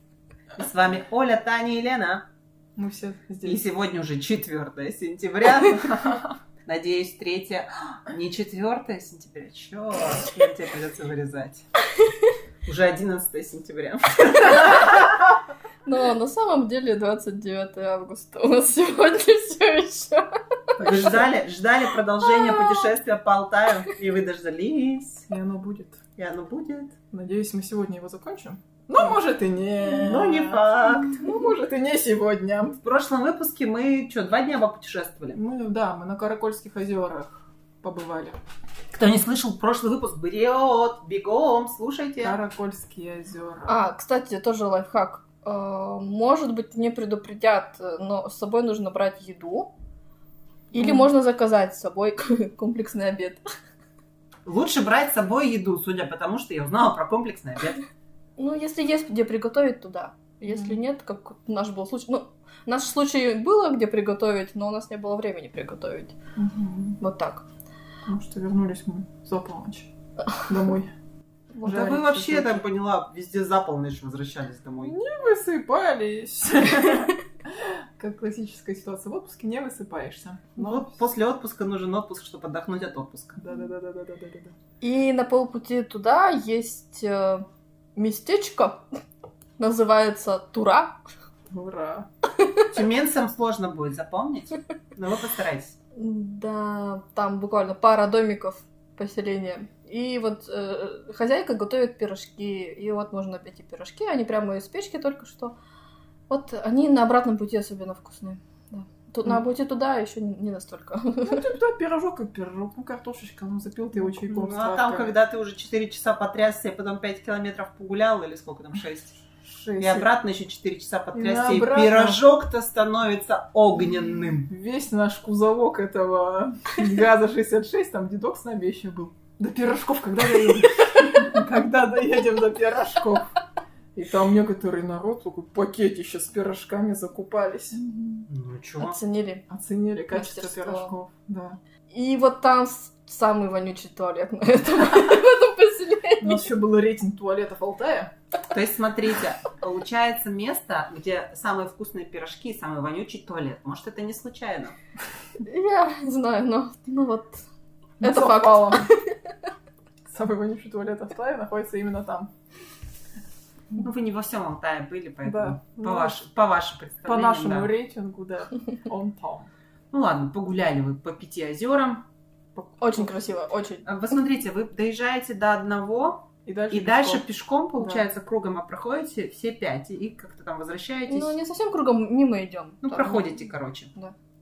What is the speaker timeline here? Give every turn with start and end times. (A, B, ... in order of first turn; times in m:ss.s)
0:00.6-0:02.2 A
0:02.8-0:03.6 B
0:03.4-0:11.6 A
0:12.6-0:15.3 A
0:15.8-0:21.1 C
0:20.8-0:25.3 A
0:22.4-0:22.8 C
0:25.3-0:26.0 B
0:26.2-0:27.0 A
0:27.1-0:32.8 B
0:29.8-0:31.3 A
0:32.8-0:35.4 A
0:35.3-0:38.4 B
0:38.9-0:42.4 A
0:42.2-0:43.8 B
0:43.7-0:49.7 C
0:50.7-0:53.4 C
0:50.7-0:51.1 B
0:54.4-0:57.8 A
0:58.4-1:06.2 C
1:06.4-1:07.0 B
1:07.0-1:07.4 C
1:08.1-1:10.9 B
1:11.5-1:12.6 B
1:11.6-1:15.0 A
1:14.8-1:21.0 B
1:20.6-1:23.4 A
1:23.4-1:24.6 B
1:24.8-1:28.8 C
1:29.6-1:31.0 C
1:31.5-1:32.1 B
1:32.4-1:32.6 C
1:32.7-1:35.8 A
1:35.9-1:45.6 C
1:46.3-1:51.5 C
1:51.2-1:55.2 B
1:54.2-1:59.2 A
1:59.4-2:00.1 B
1:59.8-2:04.5 A
2:01.1-2:02.3 B
2:04.5-2:13.4 B
2:13.9-2:17.8 B
2:17.8-2:18.3 C
2:18.3-2:19.0 A
2:18.8-2:19.4 C
2:19.5-2:21.6 B
2:20.1-2:20.9 C
2:21.9-2:26.4 C
2:26.2-2:28.1 B
2:28.5-2:34.8 A
2:35.4-2:37.4 C
2:38.0-2:38.9 B
2:38.0-2:39.1 C
2:40.0-2:42.3 B
2:43.8-2:47.7 A
2:45.2-2:46.2 B
2:47.0-2:49.5 B
2:49.9-2:52.0 A
2:52.8-2:53.9 C
2:53.8-3:01.3 A
2:56.4-2:58.0 B
3:01.1-3:04.1 C
3:02.8-3:03.9 A